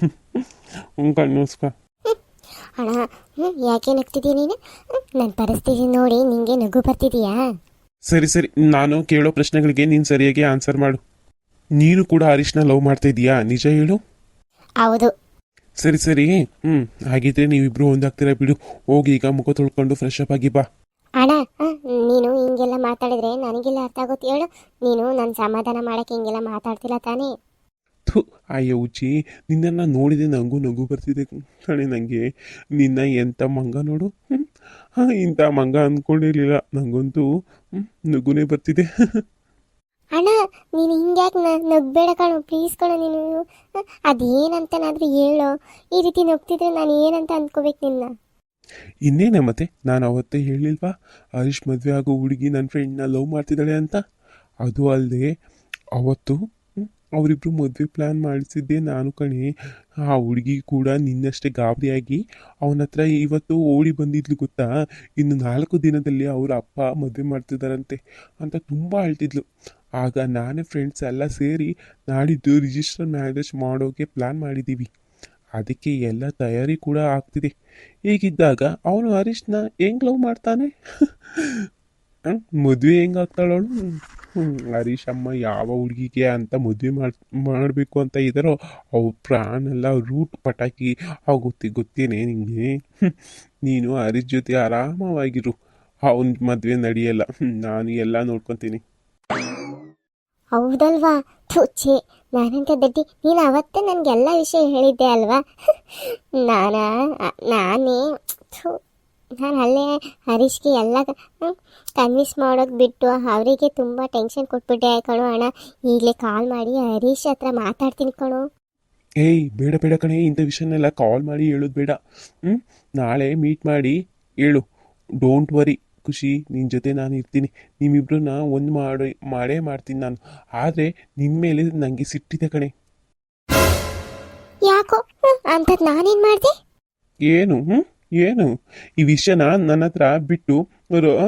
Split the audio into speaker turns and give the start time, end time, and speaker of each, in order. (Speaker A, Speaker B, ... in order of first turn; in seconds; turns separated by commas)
Speaker A: 1.0-1.7, Speaker B: 2.8-4.5, Speaker B: 5.2-7.4, Speaker A: 8.1-11.0, Speaker A: 11.8-14.0, Speaker B: 14.8-15.1, Speaker A: 15.8-20.6, Speaker B: 21.2-27.3, Speaker A: 28.1-32.2, Speaker A: 32.8-34.4, Speaker A: 35.0-37.2, Speaker A: 38.1-38.8, Speaker B: 40.2-43.4, Speaker B: 44.1-48.1, Speaker A: 49.1-54.0, Speaker A: 54.6-55.3, Speaker A: 56.0-59.5, Speaker A: 60.1-64.7, Speaker A: 65.2-69.4, Speaker A: 70.0-74.9, Speaker A: 75.6-77.5, Speaker A: 78.1-80.7, Speaker A: 81.4-81.6, Speaker A: 82.3-92.8, Speaker A: 93.6-95.5, Speaker A: 96.1-98.8, Speaker B: 100.5-105.4, Speaker B: 106.0-108.0, Speaker B: 108.5-108.8, Speaker B: 109.4-118.4, Speaker A: 119.2-124.6, Speaker A: 125.2-132.7, Speaker B: 134.7-136.5, Speaker A: 137.3-138.5, Speaker A: 139.0-141.1